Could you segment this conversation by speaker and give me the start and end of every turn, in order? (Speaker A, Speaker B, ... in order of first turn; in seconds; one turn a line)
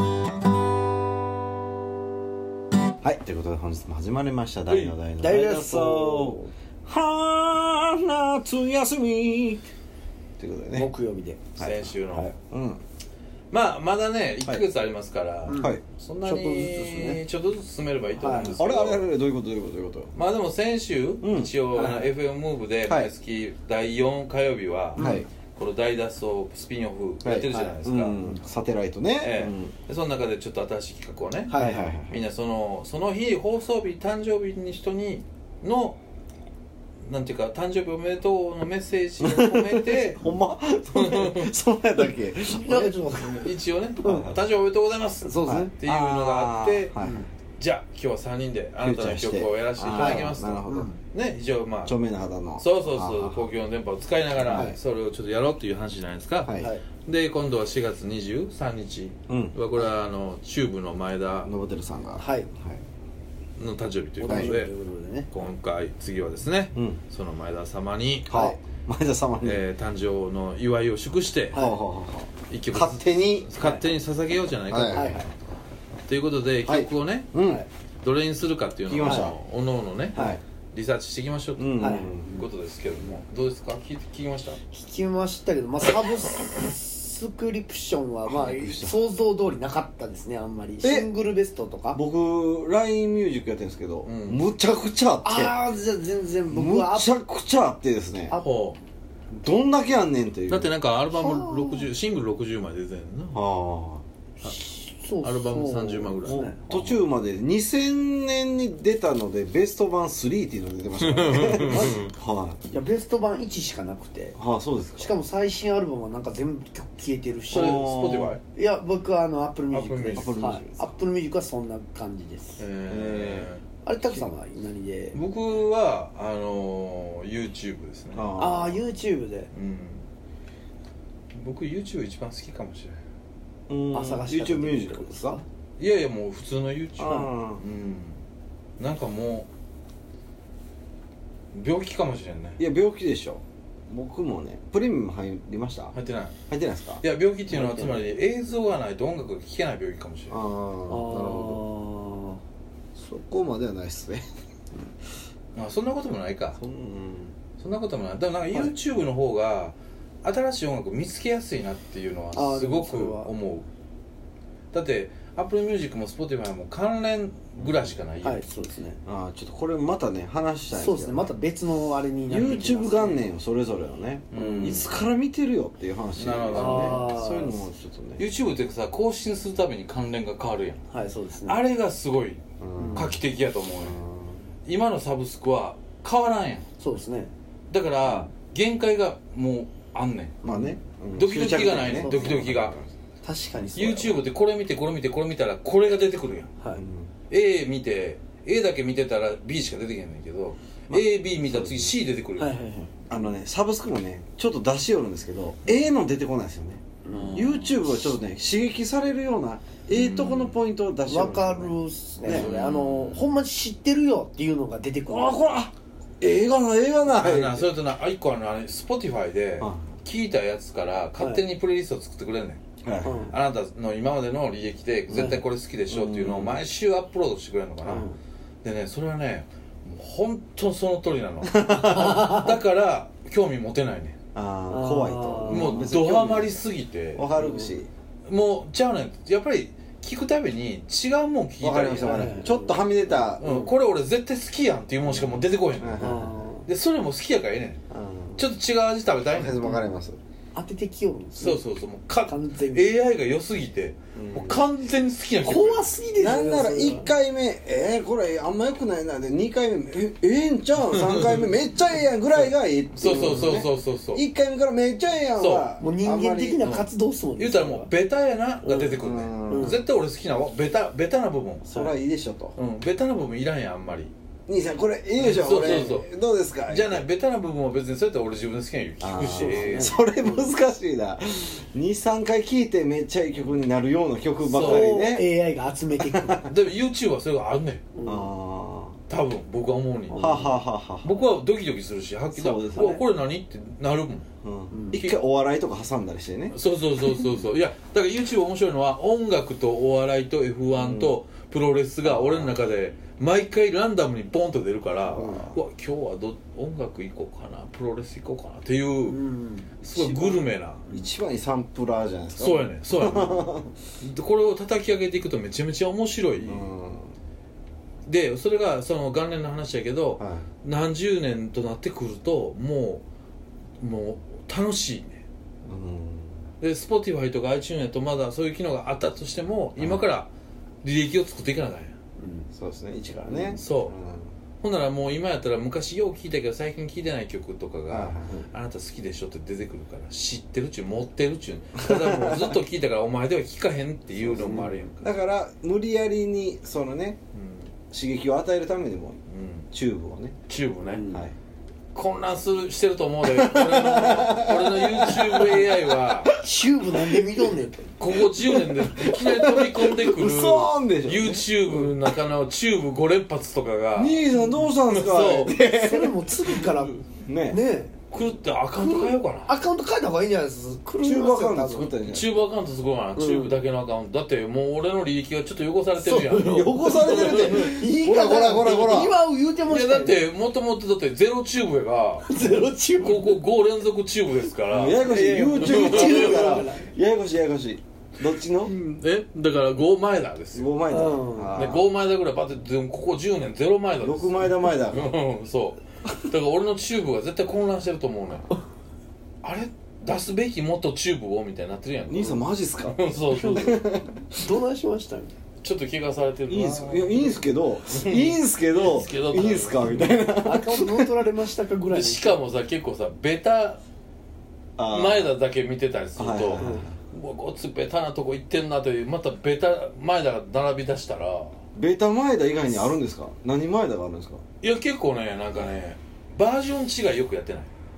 Speaker A: 3.0-9.6
Speaker B: 4.7-4.9
Speaker C: 5.2-6.5
Speaker A: 10.4-10.9
Speaker C: 10.7-12.3
Speaker A: 11.6-12.8
Speaker B: 11.6-12.3
Speaker B: 13.5-19.1
Speaker C: 15.5-17.2
Speaker A: 15.5-15.8
Speaker C: 18.1-18.6
Speaker A: 18.6-20.1
Speaker B: 20.1-28.3
Speaker A: 21.2-22.1
Speaker A: 22.8-23.1
Speaker A: 25.0-25.2
Speaker C: 25.0-25.3
Speaker A: 27.2-29.8
Speaker B: 29.2-36.0
Speaker C: 31.5-31.8
Speaker A: 31.5-32.2
Speaker B: 37.0-40.2
Speaker A: 39.2-43.0
Speaker B: 40.9-41.5
Speaker C: 42.5-43.5
Speaker B: 43.1-46.9
Speaker A: 44.1-44.4
Speaker C: 45.2-45.7
Speaker A: 45.5-47.3
Speaker C: 47.0-47.3
Speaker B: 47.6-51.9
Speaker A: 48.8-50.9
Speaker C: 49.9-51.0
Speaker A: 51.8-53.5
Speaker B: 52.6-61.5
Speaker A: 54.4-54.8
Speaker A: 56.4-56.7
Speaker C: 56.6-56.8
Speaker A: 59.3-59.6
Speaker A: 61.4-62.8
Speaker C: 62.2-62.5
Speaker B: 63.6-64.7
Speaker C: 64.2-65.3
Speaker A: 64.2-64.6
Speaker B: 65.3-68.4
Speaker A: 66.7-67.0
Speaker A: 68.3-69.6
Speaker C: 68.3-68.6
Speaker B: 69.4-71.6
Speaker C: 71.5-71.8
Speaker A: 71.5-73.5
Speaker B: 72.5-75.2
Speaker C: 73.6-73.9
Speaker A: 74.7-75.1
Speaker C: 74.9-75.3
Speaker B: 76.1-77.3
Speaker A: 76.6-77.6
Speaker B: 78.0-84.6
Speaker A: 78.9-79.4
Speaker C: 79.0-79.3
Speaker A: 80.1-80.4
Speaker A: 81.6-82.5
Speaker C: 81.8-82.4
Speaker C: 84.7-92.0
Speaker A: 88.2-89.0
Speaker A: 90.8-91.1
Speaker A: 91.9-95.6
Speaker B: 94.0-94.4
Speaker C: 95.2-97.1
Speaker A: 96.5-98.4
Speaker B: 98.4-98.8
Speaker A: 99.3-100.7
Speaker B: 100.5-103.4
Speaker C: 101.1-101.9
Speaker A: 103.3-104.0
Speaker C: 104.4-106.6
Speaker B: 105.2-106.9
Speaker A: 106.2-112.6
Speaker B: 111.0-112.1
Speaker C: 111.3-112.0
Speaker C: 112.7-114.4
Speaker A: 114.3-115.2
Speaker C: 115.0-117.9
Speaker A: 117.5-118.4
Speaker B: 117.5-118.4
Speaker C: 118.5-122.6
Speaker B: 119.7-120.8
Speaker A: 120.2-120.7
Speaker B: 122.6-123.6
Speaker A: 122.9-123.5
Speaker C: 123.8-125.2
Speaker B: 125.1-128.3
Speaker A: 128.1-128.8
Speaker C: 128.4-129.5
Speaker B: 129.5-130.1
Speaker B: 131.3-133.0
Speaker A: 133.7-135.4
Speaker C: 133.9-135.4
Speaker B: 135.8-138.2
Speaker A: 137.0-137.6
Speaker B: 138.8-139.5
Speaker B: 141.5-142.6
Speaker A: 142.6-145.9
Speaker B: 145.9-146.4
Speaker A: 146.5-147.0
Speaker B: 147.0-150.4
Speaker C: 147.5-148.1
Speaker A: 150.3-151.6
Speaker C: 150.9-152.4
Speaker A: 152.9-154.2
Speaker B: 155.6-156.6
Speaker A: 156.5-157.3
Speaker B: 157.6-163.7
Speaker C: 162.3-163.3
Speaker B: 164.7-168.4
Speaker A: 167.6-167.9
Speaker C: 168.2-169.0
Speaker A: 169.1-171.3
Speaker C: 170.7-173.2
Speaker A: 172.3-178.2
Speaker B: 172.3-172.7
Speaker B: 174.3-174.9
Speaker B: 176.2-177.1
Speaker C: 176.5-177.6
Speaker B: 178.2-180.8
Speaker C: 180.9-181.6
Speaker B: 181.4-182.4
Speaker A: 182.6-183.2
Speaker C: 182.8-183.1
Speaker B: 182.9-184.0
Speaker A: 183.8-184.5
Speaker B: 184.7-186.7
Speaker C: 186.8-187.3
Speaker B: 187.7-190.5
Speaker A: 190.4-192.9
Speaker B: 191.2-192.8
Speaker C: 191.6-192.3
Speaker C: 193.2-194.2
Speaker B: 193.6-196.5
Speaker A: 196.7-197.1
Speaker B: 197.3-202.5
Speaker A: 200.9-201.9
Speaker C: 202.4-202.9
Speaker A: 203.1-212.5
Speaker C: 207.0-207.5
Speaker B: 207.1-207.8
Speaker B: 209.9-210.6
Speaker C: 211.1-215.6
Speaker B: 212.2-213.2
Speaker A: 215.1-217.7
Speaker B: 217.1-222.6
Speaker A: 219.6-220.0
Speaker C: 221.2-221.4
Speaker A: 222.8-223.3
Speaker C: 223.0-223.3
Speaker B: 223.3-228.1
Speaker C: 225.1-225.4
Speaker A: 225.9-226.6
Speaker C: 227.8-228.2
Speaker B: 228.6-234.2
Speaker A: 231.4-232.4
Speaker A: 234.3-236.5
Speaker C: 234.7-235.9
Speaker B: 235.5-237.3
Speaker A: 237.1-237.9
Speaker C: 237.3-237.7
Speaker B: 238.2-242.3
Speaker A: 241.6-243.7
Speaker C: 242.0-243.2
Speaker B: 243.4-247.8
Speaker A: 245.1-246.3
Speaker C: 246.0-246.7
Speaker A: 247.9-248.5
Speaker B: 248.4-249.8
Speaker A: 249.3-250.2
Speaker C: 250.5-251.6
Speaker B: 251.4-255.9
Speaker C: 252.2-252.9
Speaker A: 254.1-254.6
Speaker C: 255.4-257.1
Speaker A: 256.1-266.6
Speaker B: 260.9-261.5
Speaker B: 262.9-264.2
Speaker C: 263.1-263.6
Speaker B: 265.3-265.7
Speaker C: 265.8-267.9
Speaker B: 266.6-271.7
Speaker C: 268.6-269.8
Speaker A: 269.0-269.8
Speaker A: 271.6-272.6
Speaker B: 272.6-274.1
Speaker A: 274.5-277.0
Speaker B: 275.2-276.1
Speaker B: 276.7-279.9
Speaker A: 279.0-285.3
Speaker C: 279.3-280.5
Speaker B: 284.4-284.9
Speaker C: 284.6-286.5
Speaker A: 286.1-286.4
Speaker B: 286.5-287.8
Speaker C: 287.9-288.3
Speaker A: 288.0-289.0
Speaker B: 289.1-290.4
Speaker C: 290.1-290.6
Speaker A: 290.1-291.1
Speaker B: 291.0-294.2
Speaker A: 292.3-293.0
Speaker A: 294.4-296.6
Speaker C: 294.7-295.0
Speaker B: 296.5-309.2
Speaker A: 300.7-301.2
Speaker A: 302.0-302.6
Speaker A: 305.1-305.6
Speaker C: 309.1-309.7
Speaker B: 309.8-310.8
Speaker A: 309.9-313.7
Speaker B: 312.4-316.7
Speaker A: 316.4-317.1
Speaker B: 318.1-323.0
Speaker A: 320.2-320.5
Speaker B: 323.8-325.2
Speaker A: 325.6-326.4
Speaker B: 326.6-330.3
Speaker A: 329.8-330.1
Speaker B: 330.8-331.9
Speaker C: 332.2-332.5
Speaker A: 332.5-334.3
Speaker C: 333.3-333.6
Speaker B: 333.5-333.9
Speaker B: 334.6-345.1
Speaker A: 337.9-338.5
Speaker A: 341.8-342.6
Speaker A: 344.2-347.2
Speaker C: 344.4-344.7
Speaker B: 347.3-347.7
Speaker A: 347.9-349.2
Speaker B: 349.3-349.7
Speaker A: 349.7-350.4
Speaker B: 350.5-351.0
Speaker C: 350.8-351.2
Speaker A: 351.1-351.3
Speaker B: 351.9-356.3
Speaker A: 353.3-356.1
Speaker C: 356.4-357.9
Speaker A: 357.0-357.2
Speaker B: 358.0-364.2
Speaker A: 358.4-362.1
Speaker A: 363.9-366.2
Speaker C: 364.3-364.7
Speaker B: 364.9-365.6
Speaker C: 365.5-368.0
Speaker A: 367.1-367.6
Speaker B: 368.1-369.6
Speaker C: 368.8-371.9
Speaker A: 371.0-372.3
Speaker B: 372.1-377.7
Speaker C: 373.1-373.6
Speaker A: 376.0-379.1
Speaker C: 376.1-380.2
Speaker B: 379.6-386.6
Speaker C: 382.3-383.4
Speaker A: 384.7-388.7
Speaker C: 385.0-386.9
Speaker B: 388.6-398.4
Speaker A: 390.5-391.9
Speaker C: 390.9-391.7
Speaker A: 394.0-395.1
Speaker B: 399.4-403.8
Speaker A: 402.1-404.5
Speaker C: 403.3-405.3
Speaker B: 405.6-410.2
Speaker A: 406.5-411.1
Speaker C: 410.4-412.4
Speaker B: 411.9-413.8
Speaker A: 414.8-415.3
Speaker B: 414.9-421.5
Speaker A: 416.1-417.0
Speaker C: 416.6-416.9
Speaker A: 421.7-424.4
Speaker B: 424.6-427.7